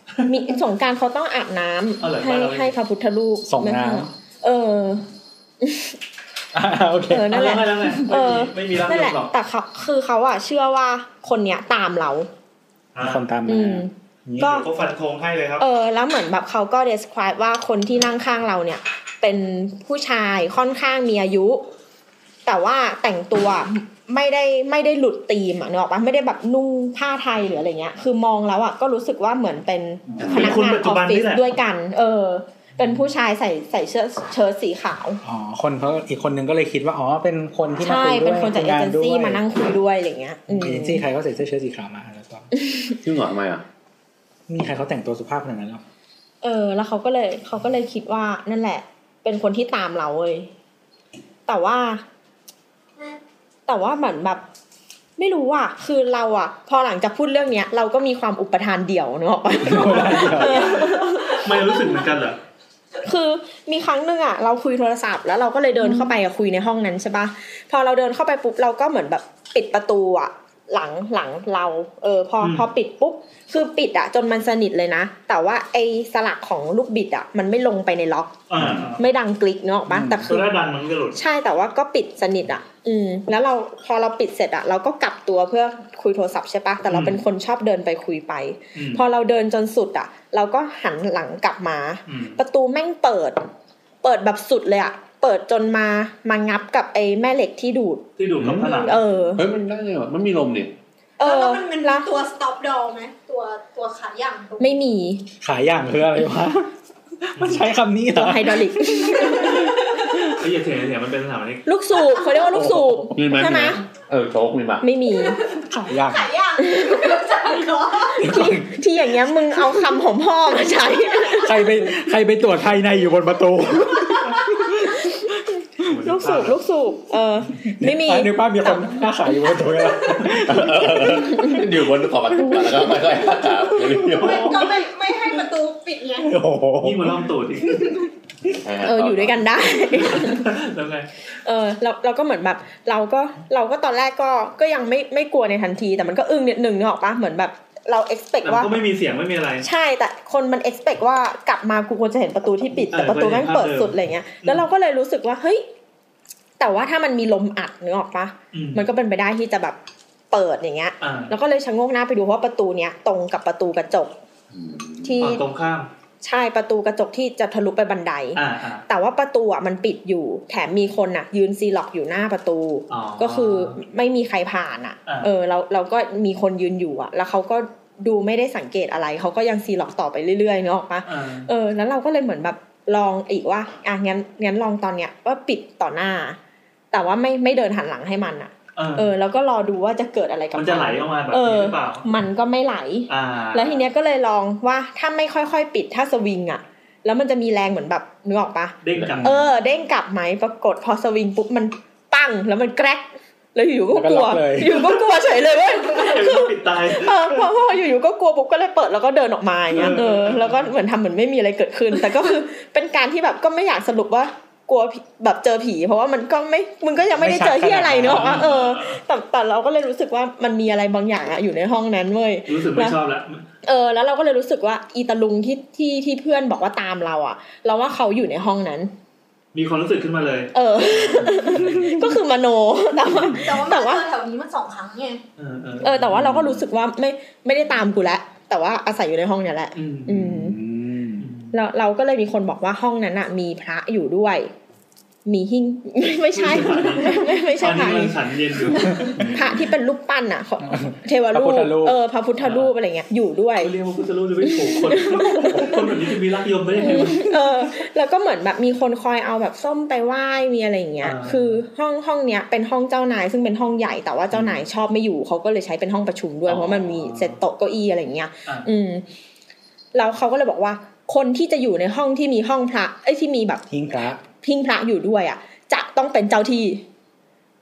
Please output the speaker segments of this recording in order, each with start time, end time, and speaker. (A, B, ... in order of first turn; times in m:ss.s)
0:00.3-0:05.1 A
0:02.0-0:02.7 B
0:03.5-0:04.1 C
0:05.6-0:06.0 A
0:06.5-0:07.3 C
0:07.1-0:12.3 A
0:07.3-0:09.3 B
0:13.0-0:13.2 B
0:13.0-0:14.5 C
0:13.5-0:14.7 A
0:14.4-0:15.6 B
0:15.6-0:21.6 A
0:22.5-0:35.2 A
0:30.2-0:31.4 B
0:35.2-0:39.4 C
0:37.8-0:41.0 A
0:40.5-0:42.5 C
0:42.6-0:43.0 A
0:43.0-0:43.6 D
0:44.5-0:45.8 C
0:46.4-0:50.5 A
0:51.5-0:52.0 A
0:53.7-0:54.4 A
0:55.2-1:01.8 A
0:59.6-1:00.8 C
1:00.2-1:02.4 B
1:03.0-1:18.4 A
1:18.5-1:19.1 B
1:19.0-1:20.5 A
1:19.9-1:20.3 C
1:20.3-1:21.2 B
1:21.1-1:33.5 A
1:26.9-1:27.2 B
1:28.8-1:29.0 B
1:32.1-1:32.4 B
1:34.0-1:38.1 A
1:38.2-1:39.0 B
1:38.4-1:40.7 D
1:38.6-1:39.4 A
1:41.2-1:42.1 A
1:41.2-1:44.8 E
1:44.6-1:45.3 A
1:45.4-1:50.4 C
1:48.1-1:49.8 A
1:50.4-1:51.6 B
1:51.7-1:53.8 A
1:52.0-1:52.4 E
1:52.5-1:53.2 C
1:53.2-1:54.9 D
1:54.8-1:55.4 A
1:55.2-1:58.4 E
1:55.5-1:56.3 C
1:56.6-1:57.2 A
1:58.1-2:01.7 A
1:58.2-1:58.8 C
2:01.1-2:05.9 C
2:05.9-2:06.6 B
2:05.9-2:09.1 A
2:07.6-2:11.7 C
2:10.4-2:14.6 D
2:11.2-2:11.6 A
2:13.6-2:14.3 C
2:14.2-2:16.3 E
2:14.2-2:14.7 B
2:16.2-2:18.0 C
2:16.8-2:18.0 B
2:18.6-2:19.6 D
2:18.8-2:20.5 A
2:20.0-2:21.1 B
2:21.4-2:28.8 A
2:28.4-2:29.7 B
2:29.6-2:35.7 A
2:32.9-2:34.6 B
2:36.6-2:39.8 A
2:38.5-2:38.8 B
2:40.3-2:44.1 A
2:41.0-2:41.3 B
2:44.6-2:45.2 D
2:45.0-2:45.4 A
2:45.2-2:45.9 B
2:46.2-3:06.4 A
2:48.4-2:48.8 B
2:52.9-2:53.8 B
3:01.1-3:01.5 B
3:06.9-3:43.0 A
3:08.8-3:09.1 B
3:10.5-3:12.1 B
3:13.1-3:13.8 B
3:18.8-3:19.3 B
3:19.1-3:19.4 C
3:23.9-3:24.8 C
3:25.4-3:27.4 B
3:29.7-3:30.7 B
3:37.2-3:38.5 C
3:38.0-3:39.0 B
3:42.5-3:43.4 B
3:43.6-3:48.9 A
3:49.5-3:52.0 B
3:50.5-3:54.1 A
3:53.2-3:55.2 E
3:55.4-3:56.0 B
3:55.8-4:00.6 A
3:56.0-3:56.6 C
3:59.8-4:00.1 B
4:00.1-4:01.3 C
4:01.2-4:01.5 B
4:01.5-4:04.5 A
4:05.3-4:13.7 A
4:06.3-4:09.6 B
4:10.7-4:12.0 C
4:12.4-4:12.7 B
4:13.6-4:17.3 B
4:14.5-4:15.7 A
4:16.8-4:29.1 A
4:21.0-4:21.6 B
4:26.5-4:27.4 B
4:29.9-4:33.6 A
4:33.7-4:34.2 C
4:34.4-4:36.8 A